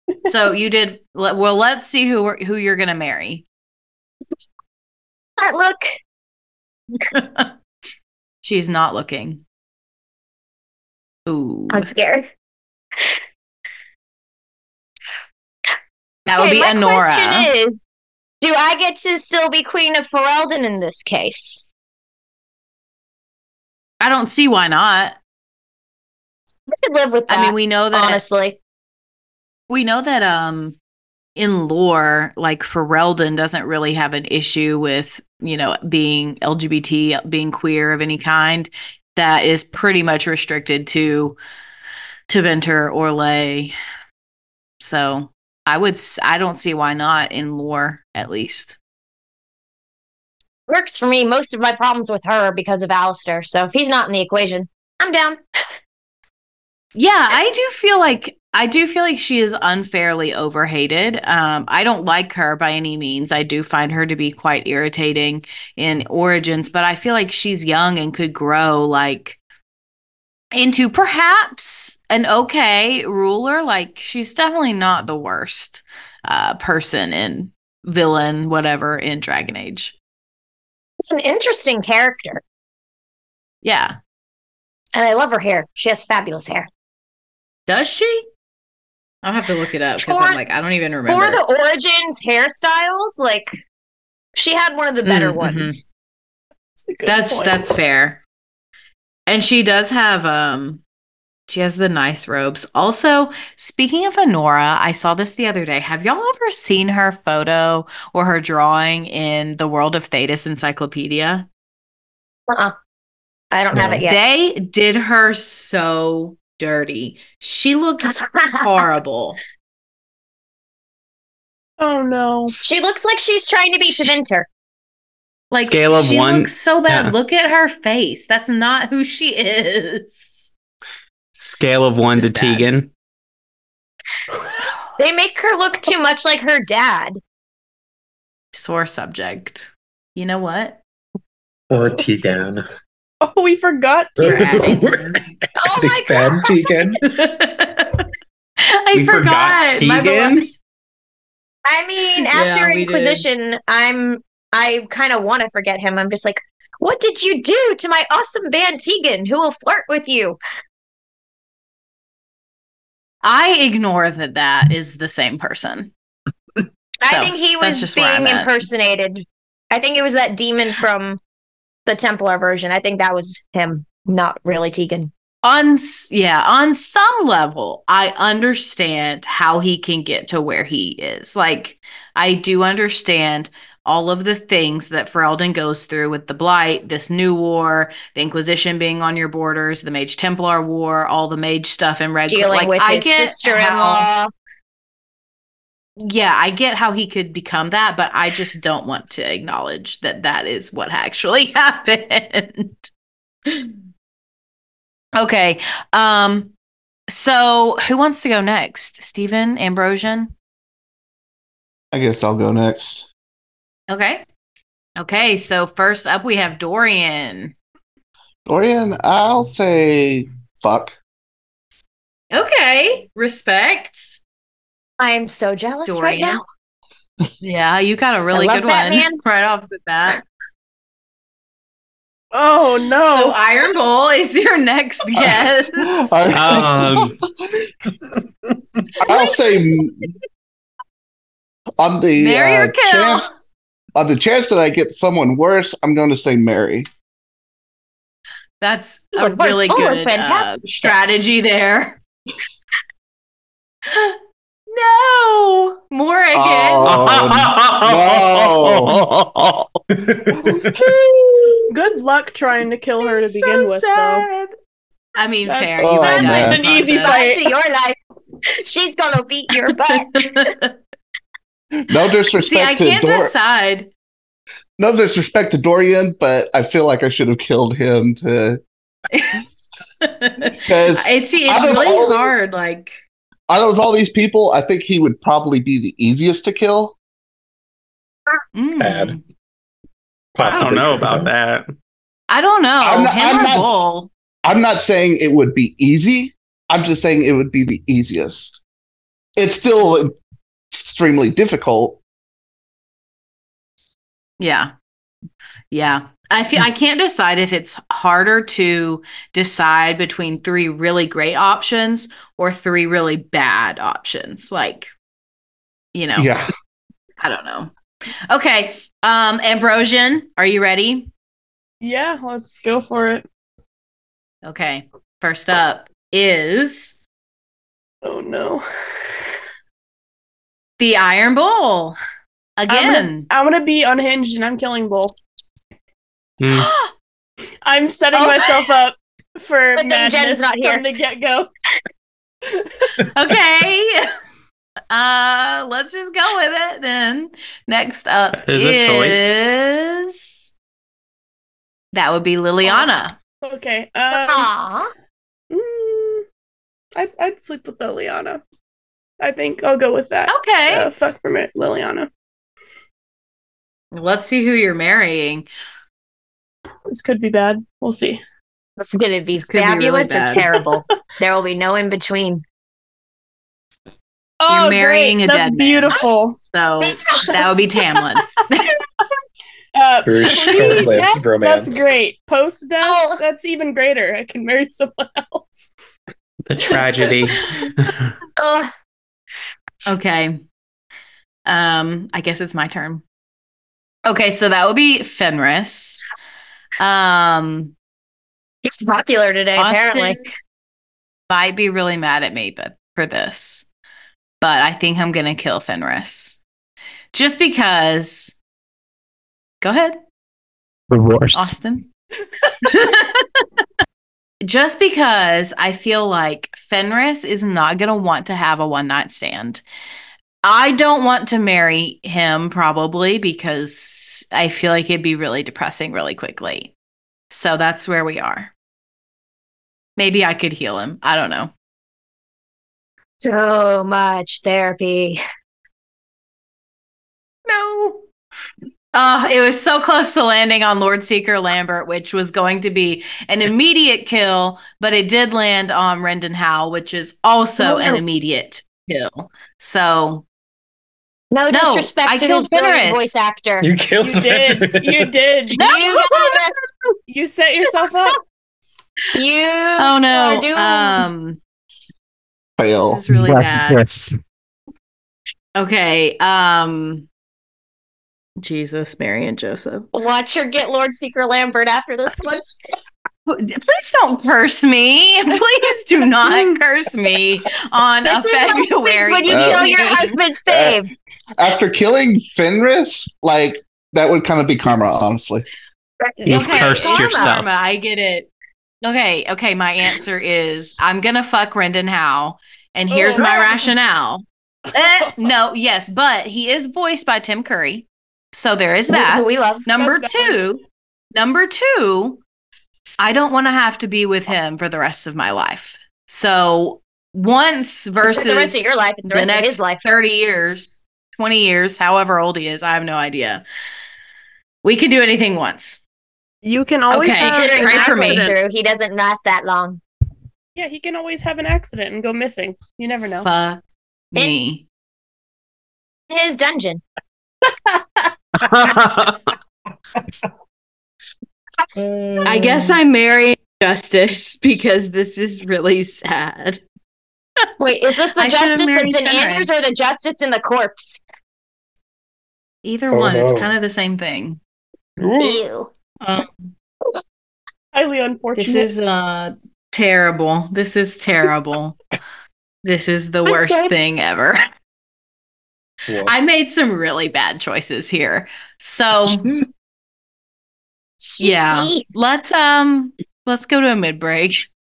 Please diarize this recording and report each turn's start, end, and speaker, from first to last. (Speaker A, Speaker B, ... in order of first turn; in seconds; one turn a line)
Speaker A: 0.2-3.4
Speaker B: 5.4-6.0
Speaker A: 7.1-7.5
Speaker A: 8.4-9.4
Speaker A: 11.3-11.9
Speaker B: 11.7-12.3
Speaker A: 16.2-17.5
Speaker B: 16.4-17.8
Speaker B: 18.4-21.7
Speaker A: 24.0-25.2
Speaker B: 26.7-28.6
Speaker A: 27.3-28.2
Speaker A: 29.7-30.8
Speaker A: 31.4-41.4
Speaker A: 42.3-43.7
Speaker A: 44.8-48.8
Speaker B: 50.7-55.4
Speaker A: 56.9-69.4
Speaker A: 70.5-79.9
Speaker B: 81.1-82.4
Speaker A: 83.6-84.0
Speaker B: 84.9-86.7
Speaker A: 87.7-88.2
Speaker A: 89.2-91.4
Speaker B: 90.0-90.4
Speaker B: 91.1-93.6
Speaker B: 94.4-95.8
Speaker A: 95.0-95.8
Speaker C: 96.8-97.8
Speaker A: 97.0-98.2
Speaker A: 99.3-100.8
Speaker A: 101.5-111.5
Speaker B: 113.5-114.2
Speaker A: 114.1-119.4
Speaker C: 121.8-122.6
Speaker B: 122.6-124.5
Speaker A: 125.5-130.5
Speaker D: 125.5-127.1
Speaker D: 131.3-132.9
Speaker A: 132.1-132.7
Speaker B: 135.0-137.2
Speaker A: 138.5-140.8
Speaker E: 141.7-142.6
Speaker C: 143.2-144.4
Speaker E: 144.2-147.0
Speaker A: 144.2-145.2
Speaker B: 145.6-146.7
Speaker A: 147.0-148.1
Speaker A: 148.7-150.4
Speaker D: 148.9-150.5
Speaker B: 151.6-160.4
Speaker A: 152.3-153.2
Speaker A: 163.2-165.9
Speaker B: 167.0-171.2
Speaker A: 167.1-168.6
Speaker B: 171.9-175.1
Speaker A: 175.4-194.1
Speaker B: 192.3-194.3
Speaker A: 196.0-202.9
Speaker A: 203.5-203.8
Speaker A: 205.2-206.5
Speaker A: 207.1-210.3
Speaker F: 211.9-213.1
Speaker A: 213.9-214.2
Speaker A: 215.0-217.5
Speaker F: 218.5-220.9
Speaker A: 222.3-224.2
Speaker B: 225.0-226.4
Speaker A: 225.9-226.4
Speaker A: 227.4-230.2
Speaker B: 228.3-229.3
Speaker C: 232.3-233.4
Speaker A: 233.1-236.2
Speaker F: 235.2-237.6
Speaker D: 236.3-237.2
Speaker F: 239.0-240.2
Speaker F: 241.8-243.3
Speaker A: 242.2-243.3
Speaker F: 243.9-246.9
Speaker A: 248.6-252.0
Speaker B: 249.2-250.5
Speaker A: 253.9-254.2
Speaker A: 254.7-256.9
Speaker F: 256.3-258.9
Speaker D: 256.9-259.8
Speaker E: 260.0-260.8
Speaker F: 260.4-260.6
Speaker C: 261.7-264.3
Speaker A: 263.0-264.5
Speaker A: 265.1-267.2
Speaker C: 265.5-267.5
Speaker F: 265.8-266.6
Speaker B: 266.1-268.0
Speaker B: 268.5-270.5
Speaker A: 269.6-270.7
Speaker F: 271.9-273.3
Speaker A: 272.4-273.9
Speaker F: 274.8-278.6
Speaker A: 279.1-279.4
Speaker A: 280.0-283.0
Speaker F: 280.6-282.4
Speaker F: 283.5-286.9
Speaker A: 288.5-289.2
Speaker E: 288.8-289.2
Speaker E: 290.4-291.3
Speaker D: 290.4-291.7
Speaker A: 292.3-294.1
Speaker F: 292.8-293.9
Speaker F: 294.4-298.6
Speaker F: 299.4-300.1
Speaker F: 300.7-302.0
Speaker A: 304.4-304.7
Speaker A: 305.7-314.9
Speaker A: 315.9-316.4
Speaker F: 316.2-316.5
Speaker A: 317.2-317.7
Speaker A: 318.3-321.1
Speaker C: 321.8-323.2
Speaker A: 324.4-326.9
Speaker C: 328.0-328.6
Speaker A: 330.8-332.0
Speaker A: 332.6-333.3
Speaker C: 332.7-335.1
Speaker D: 336.4-336.7
Speaker C: 337.6-341.5
Speaker A: 338.2-338.5
Speaker B: 339.8-340.9
Speaker A: 343.1-344.1
Speaker A: 344.9-350.5
Speaker D: 348.3-349.3
Speaker A: 351.9-353.1
Speaker C: 353.4-354.5
Speaker B: 354.1-354.9
Speaker C: 355.5-356.2
Speaker C: 357.0-358.4
Speaker C: 359.2-362.1
Speaker A: 360.3-360.9
Speaker A: 363.9-365.5
Speaker C: 366.9-368.2
Speaker B: 368.8-372.4
Speaker A: 369.4-370.5
Speaker C: 374.4-376.4
Speaker A: 374.5-376.0
Speaker A: 376.5-378.6
Speaker C: 377.3-377.6
Speaker C: 379.8-385.7
Speaker E: 380.0-381.9
Speaker A: 380.3-380.9
Speaker B: 382.8-383.2
Speaker D: 386.5-388.1
Speaker B: 388.4-388.7
Speaker A: 389.9-390.4
Speaker A: 391.5-393.0
Speaker A: 394.0-396.0
Speaker A: 396.8-397.7
Speaker B: 398.6-400.3
Speaker A: 399.6-400.2
Speaker A: 401.3-403.7
Speaker A: 404.4-406.4
Speaker A: 407.1-408.4
Speaker A: 409.6-410.0
Speaker D: 410.9-411.5
Speaker A: 411.4-411.9
Speaker A: 412.6-413.4
Speaker A: 414.4-419.6
Speaker A: 420.4-426.7
Speaker A: 427.3-428.5
Speaker A: 430.0-431.5
Speaker B: 433.2-435.2
Speaker A: 437.5-438.0
Speaker A: 438.9-450.2
Speaker B: 447.6-448.0
Speaker B: 451.3-453.7
Speaker A: 451.5-453.2
Speaker E: 453.6-455.1
Speaker C: 454.0-455.6
Speaker A: 455.6-456.4
Speaker B: 455.6-456.5
Speaker C: 457.1-458.2
Speaker B: 459.1-461.1
Speaker A: 459.8-461.4
Speaker F: 462.6-463.0
Speaker A: 462.8-463.8
Speaker D: 463.1-464.2
Speaker A: 465.6-467.1
Speaker A: 468.4-469.9
Speaker B: 469.9-472.5
Speaker A: 473.3-480.2
Speaker B: 478.0-480.9
Speaker F: 479.3-479.8
Speaker F: 480.5-485.4
Speaker B: 486.2-487.2
Speaker D: 486.2-487.5
Speaker A: 486.2-488.3
Speaker A: 488.8-500.6
Speaker C: 492.9-493.7
Speaker B: 498.9-499.7
Speaker C: 499.8-500.5
Speaker A: 501.1-502.2
Speaker A: 503.0-513.4
Speaker B: 508.0-509.8
Speaker A: 514.6-515.8
Speaker C: 516.4-518.4
Speaker A: 516.9-518.3
Speaker B: 517.2-519.8
Speaker C: 520.5-523.3
Speaker A: 523.2-523.6
Speaker A: 524.1-524.6
Speaker B: 526.1-526.8
Speaker A: 527.7-528.1
Speaker D: 528.4-529.3
Speaker E: 531.8-532.8
Speaker A: 532.2-536.6
Speaker B: 537.6-541.0
Speaker A: 538.1-539.5
Speaker A: 542.6-544.4
Speaker E: 542.9-543.5
Speaker E: 545.0-545.4
Speaker B: 545.2-545.7
Speaker A: 546.0-546.3
Speaker C: 547.7-548.7
Speaker A: 548.4-551.8
Speaker A: 552.6-554.5
Speaker B: 553.2-553.7
Speaker E: 555.9-556.1
Speaker A: 556.0-559.3
Speaker B: 561.0-561.8
Speaker A: 561.2-564.4